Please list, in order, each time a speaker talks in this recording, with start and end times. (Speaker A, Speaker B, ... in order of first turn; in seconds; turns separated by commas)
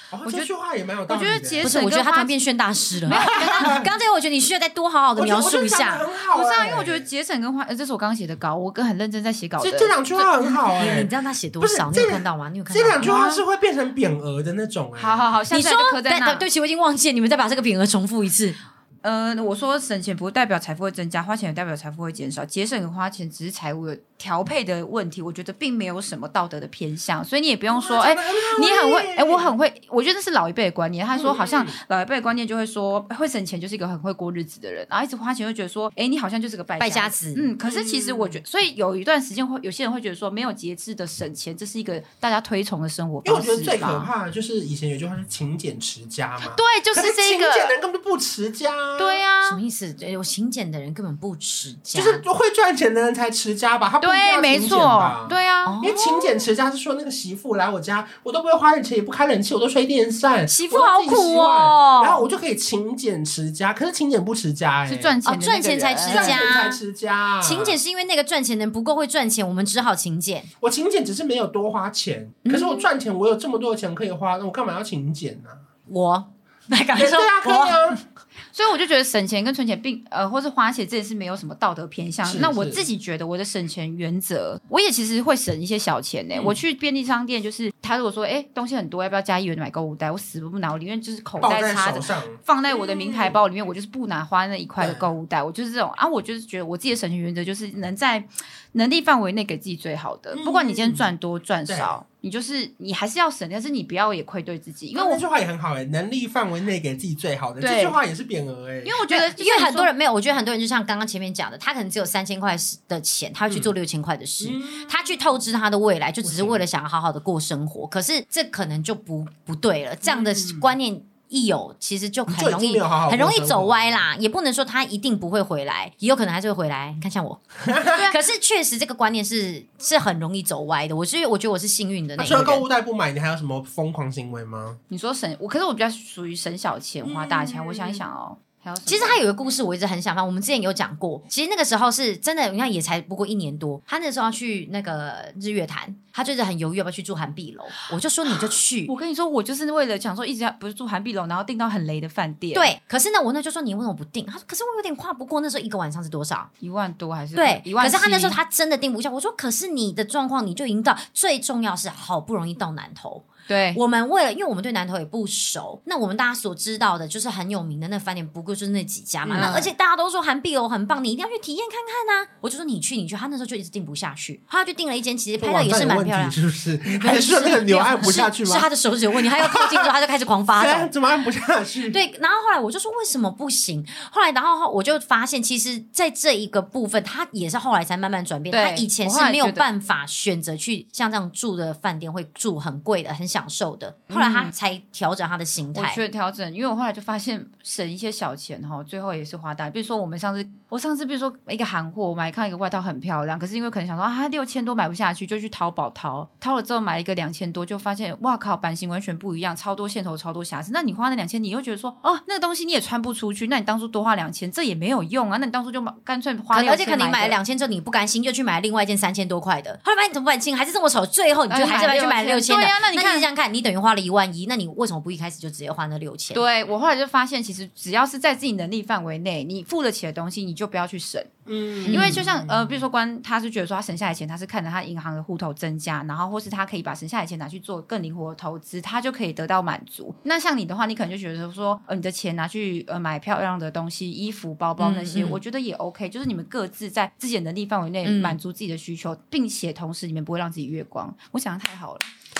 Speaker A: 0.1-1.7, Speaker B: 0.2-0.5, Speaker B: 1.1-2.4, Speaker C: 1.6-6.0, Speaker B: 3.0-3.8, Speaker A: 3.1-3.9, Speaker A: 5.2-7.1, Speaker B: 6.3-10.1, Speaker A: 9.6-15.2, Speaker C: 10.7-13.1, Speaker B: 13.0-13.4, Speaker B: 15.0-16.4, Speaker C: 15.5-18.6, Speaker B: 19.0-44.1, Speaker A: 27.7-29.5, Speaker A: 31.1-31.8, Speaker C: 36.8-37.5, Speaker A: 37.6-38.4, Speaker A: 43.2-49.2, Speaker B: 46.4-47.7, Speaker B: 49.0-49.6, Speaker C: 49.4-52.2, Speaker A: 51.9-65.2, Speaker B: 54.0-55.8, Speaker C: 55.6-56.4, Speaker C: 60.5-62.2, Speaker B: 64.9-66.5, Speaker C: 65.2-66.8, Speaker A: 66.0-67.8, Speaker C: 67.4-70.5, Speaker A: 70.6-75.6, Speaker C: 72.5-72.8, Speaker C: 75.9-77.9, Speaker A: 76.9-78.0, Speaker B: 78.5-105.2, Speaker A: 82.2-82.8, Speaker A: 91.4-93.4, Speaker A: 94.8-95.1, Speaker A: 100.3-101.1, Speaker A: 101.7-101.9, Speaker A: 104.9-109.0, Speaker B: 107.6-108.0, Speaker B: 108.8-109.9, Speaker C: 109.1-132.6, Speaker A: 114.4-115.0, Speaker A: 116.2-116.6, Speaker A: 120.1-120.7, Speaker A: 122.3-124.0, Speaker A: 127.6-128.1, Speaker A: 132.2-134.8, Speaker B: 134.9-139.2, Speaker A: 137.0-138.0, Speaker C: 138.8-148.9, Speaker B: 148.9-152.7, Speaker C: 152.5-156.5, Speaker B: 156.6-158.4, Speaker C: 157.3-180.9, Speaker B: 163.5-163.8, Speaker A: 169.2-169.6, Speaker B: 169.3-169.7, Speaker A: 175.4-179.9, Speaker A: 180.6-182.0, Speaker C: 181.9-196.0, Speaker B: 188.5-189.6, Speaker B: 194.1-194.5, Speaker B: 195.7-217.4, Speaker C: 216.5-226.4, Speaker B: 221.5-223.3, Speaker B: 226.3-231.3, Speaker A: 231.5-232.8, Speaker B: 231.9-252.0, Speaker C: 231.9-232.2, Speaker C: 244.8-245.4, Speaker C: 248.0-248.4